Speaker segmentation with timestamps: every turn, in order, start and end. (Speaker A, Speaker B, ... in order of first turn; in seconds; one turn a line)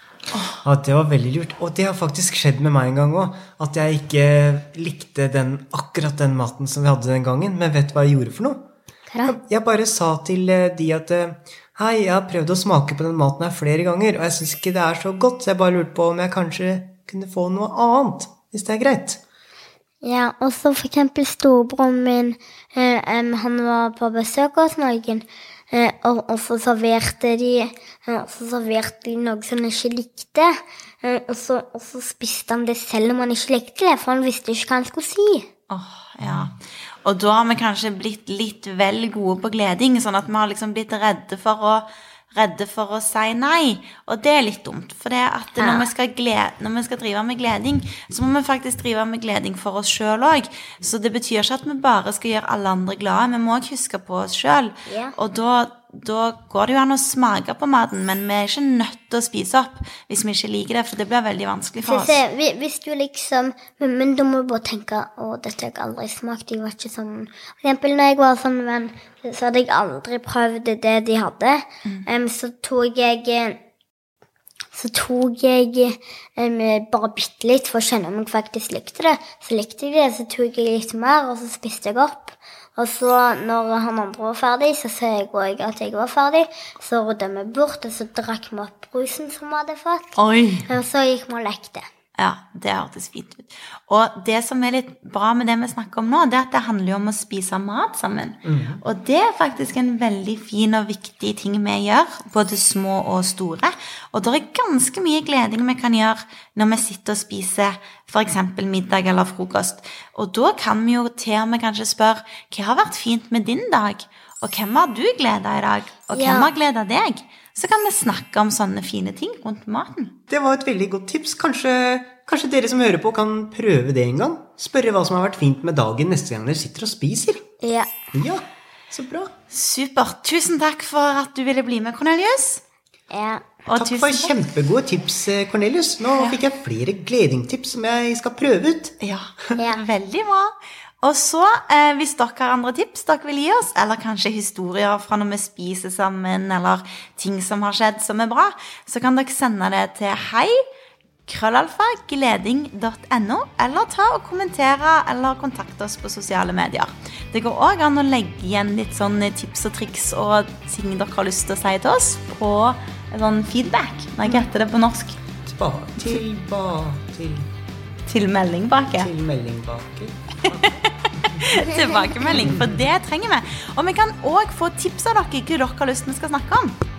Speaker A: 0.3-0.6
Speaker B: 0.6-8.6
Speaker C: 9.1-9.4
Speaker B: 9.2-19.2
Speaker C: 20.0-35.5
Speaker A: 35.7-62.2
Speaker B: 36.2-36.5
Speaker C: 45.6-45.9
Speaker C: 54.9-55.2
Speaker C: 61.9-73.6
Speaker C: 74.7-91.8
Speaker A: 90.2-90.7
Speaker A: 92.2-120.2
Speaker B: 98.5-98.8
Speaker C: 116.1-116.5
Speaker B: 120.3-127.4
Speaker C: 127.6-127.9
Speaker B: 128.1-129.3
Speaker A: 129.5-132.6
Speaker C: 133.1-133.5
Speaker A: 133.7-134.4
Speaker B: 133.7-138.9
Speaker A: 139.0-150.6
Speaker C: 139.6-139.8
Speaker A: 151.3-165.2
Speaker B: 165.4-167.5
Speaker A: 168.1-169.1
Speaker B: 169.0-171.7
Speaker A: 170.5-176.8
Speaker B: 172.3-172.8